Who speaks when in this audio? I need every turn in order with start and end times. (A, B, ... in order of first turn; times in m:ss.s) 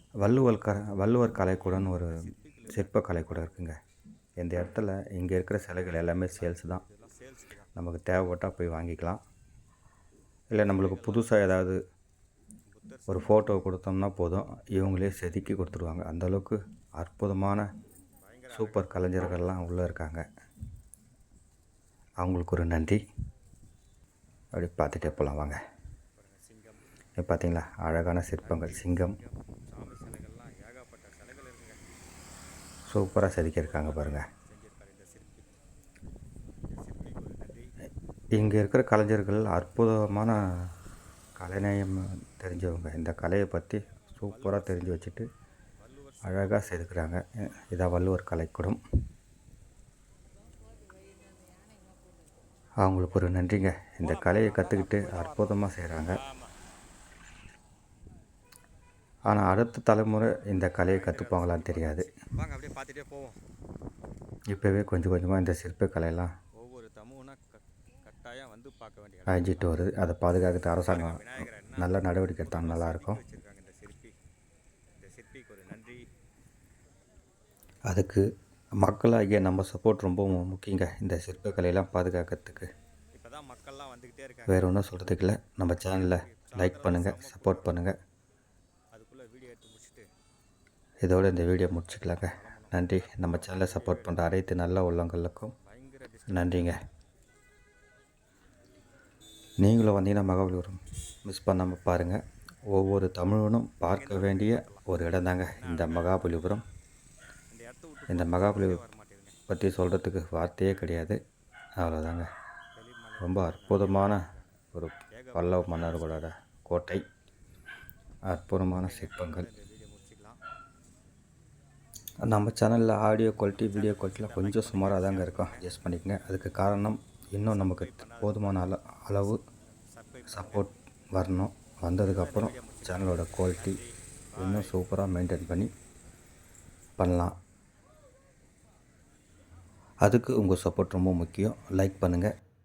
0:00.2-0:02.2 A
0:01.4-0:03.7 B
0:02.7-0:03.8 A
0:04.4-0:06.8 A
0:06.0-0:07.7 B
0:07.8-0:09.2 A
0:10.5-0:11.8 A
0:10.6-0:11.5 B
0:12.7-0:13.6 B
0:13.1-0:17.7 A
0:18.2-0:19.4 B
0:18.5-0:20.2 A
0:22.2-0:23.0 A
0:24.5-0:25.6 A
0:26.2-0:26.8 B
0:27.2-0:29.2 A
0:28.4-0:31.8 B
0:32.9-0:34.3 A
0:33.0-0:35.6 B
0:36.7-0:37.8 B
0:38.3-0:40.4 A
0:41.4-0:45.3 A
0:44.2-0:45.1 B
0:45.8-0:47.1 B
0:46.2-0:48.8 A
0:52.8-0:56.2 A
0:54.0-0:56.5 B
0:59.3-1:02.1 A
1:00.8-1:03.4 B
1:04.5-1:06.3 A
1:06.6-1:09.9 B
1:09.3-1:13.2 A
1:10.8-1:14.2 B
1:15.0-1:16.0 B
1:17.9-1:18.2 A
1:18.8-1:22.7 A
1:23.2-1:24.9 B
1:24.5-1:27.9 A
1:25.7-1:27.8 B
1:28.9-1:30.1 B
1:31.0-1:35.5 A
1:31.8-1:34.2 B
1:35.6-1:36.8 B
1:36.3-1:36.8 A
1:39.6-1:42.2 A
1:42.7-1:46.6 A
1:43.8-1:46.5 B
1:47.5-1:49.4 B
1:48.1-1:48.8 A
1:49.5-1:51.2 A
1:51.8-1:52.3 A
1:52.7-1:54.6 B
1:53.2-1:54.2 A
1:54.7-1:57.0 A
1:55.1-1:56.3 B
1:58.3-1:59.5 A
1:58.7-2:00.4 B
2:02.3-2:09.4 A
2:03.5-2:05.8 B
2:07.4-2:09.4 B
2:09.9-2:10.7 B
2:10.3-2:13.8 A
2:12.1-2:14.8 B
2:14.4-2:15.7 A
2:17.0-2:17.3 A
2:20.0-2:22.3 A